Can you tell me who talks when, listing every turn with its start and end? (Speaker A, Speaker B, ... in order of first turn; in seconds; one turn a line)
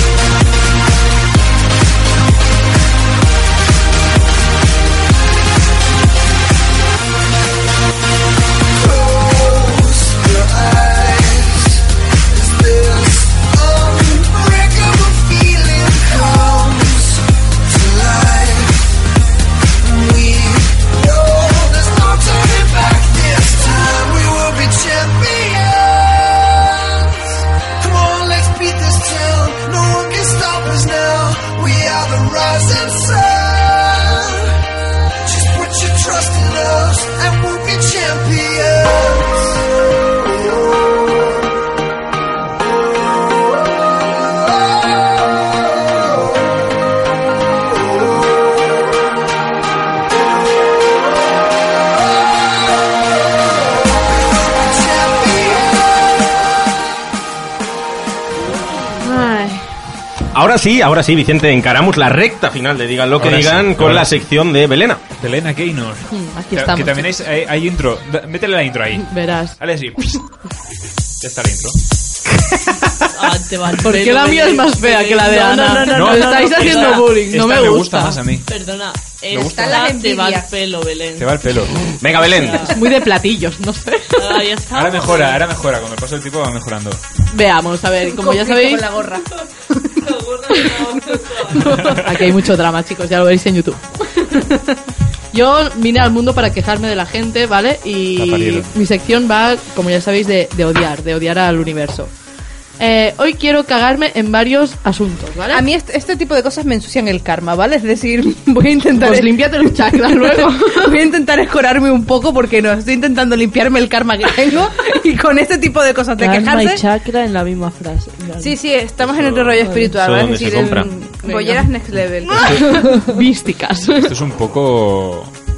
Speaker A: 8.8-18.9
Speaker A: 19.8-34.5
Speaker A: 35.2-39.6
Speaker A: 40.2-41.4
Speaker A: 44.1-46.2
Speaker A: 54.6-56.1
Speaker B: 59.0-59.6
Speaker C: 60.3-65.0
Speaker D: 63.2-64.2
Speaker D: 65.2-70.2
Speaker B: 66.1-67.1
Speaker B: 69.0-69.6
Speaker D: 71.2-71.8
Speaker E: 73.1-77.2
Speaker B: 73.8-78.2
Speaker D: 75.9-78.5
Speaker E: 78.5-81.3
Speaker D: 79.3-79.8
Speaker F: 79.4-80.5
Speaker D: 81.2-81.8
Speaker C: 82.0-82.7
Speaker E: 82.2-82.9
Speaker B: 82.7-84.4
Speaker E: 84.2-85.4
Speaker D: 84.7-87.0
Speaker B: 87.3-89.0
Speaker F: 88.1-89.3
Speaker E: 90.0-92.0
Speaker B: 91.6-94.4
Speaker B: 95.3-102.1
Speaker D: 98.2-98.7
Speaker B: 102.8-105.7
Speaker F: 105.5-109.4
Speaker B: 108.9-111.0
Speaker F: 110.1-116.8
Speaker E: 116.2-118.6
Speaker F: 118.4-122.6
Speaker C: 119.0-120.9
Speaker E: 119.6-120.0
Speaker B: 120.9-121.7
Speaker B: 122.3-124.1
Speaker E: 122.5-123.1
Speaker D: 124.0-125.3